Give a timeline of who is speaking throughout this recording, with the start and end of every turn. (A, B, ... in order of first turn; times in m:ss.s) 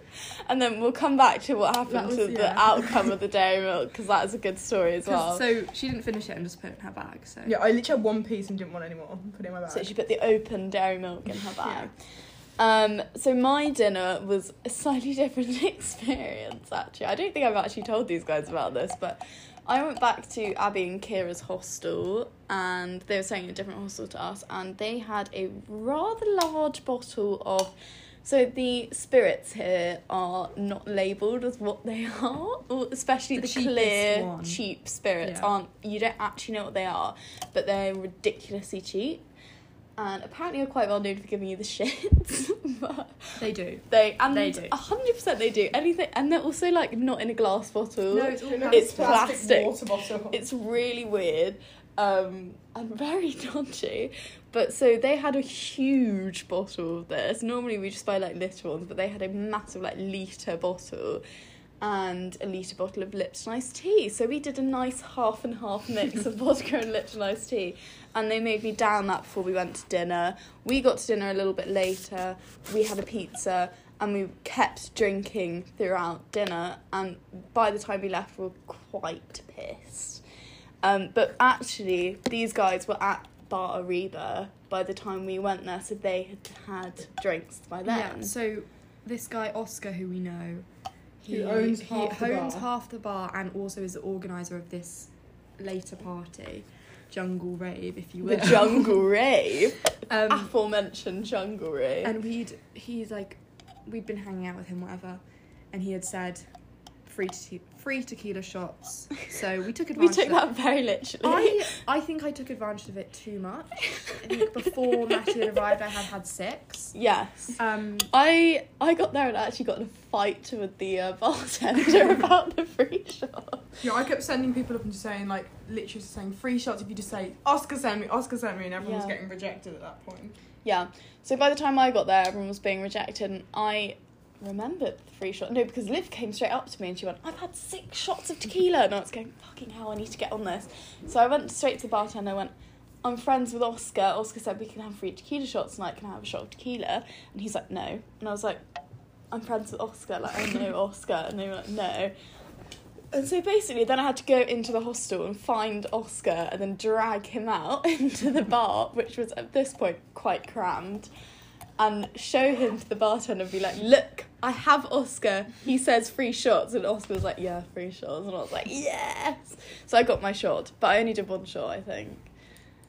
0:00.5-0:05.4 A
0:01.9-0:03.0 B
0:05.1-0:07.6 B
0:07.5-0:09.9 C
0:09.7-0:11.9 A
0:12.6-0:39.2 A
0:33.4-0:34.6 B
0:35.2-0:35.5 B
0:40.0-0:43.4 A
0:43.4-0:44.8 B
0:43.9-0:49.8 A
0:48.1-0:49.3 B
0:48.4-0:50.4 C
0:50.3-1:01.2 A
1:01.8-1:20.2 A
1:20.8-1:28.3 A
1:27.9-1:30.6 B
1:31.2-1:39.0 B
1:31.3-1:32.7 C
1:38.2-1:42.1 A
1:40.1-1:40.5 B
1:42.0-1:45.2 B
1:45.7-1:46.4 B
1:47.1-1:50.4 B
1:50.0-1:51.7 A
1:51.2-1:57.0 B
1:54.0-1:55.4 A
1:56.9-2:03.8 A
1:57.6-1:58.1 B
2:03.8-2:10.4 C
2:08.8-2:09.2 A
2:10.6-2:28.6 A
2:29.3-2:32.1 A
2:33.1-2:41.1 A
2:41.8-2:52.2 A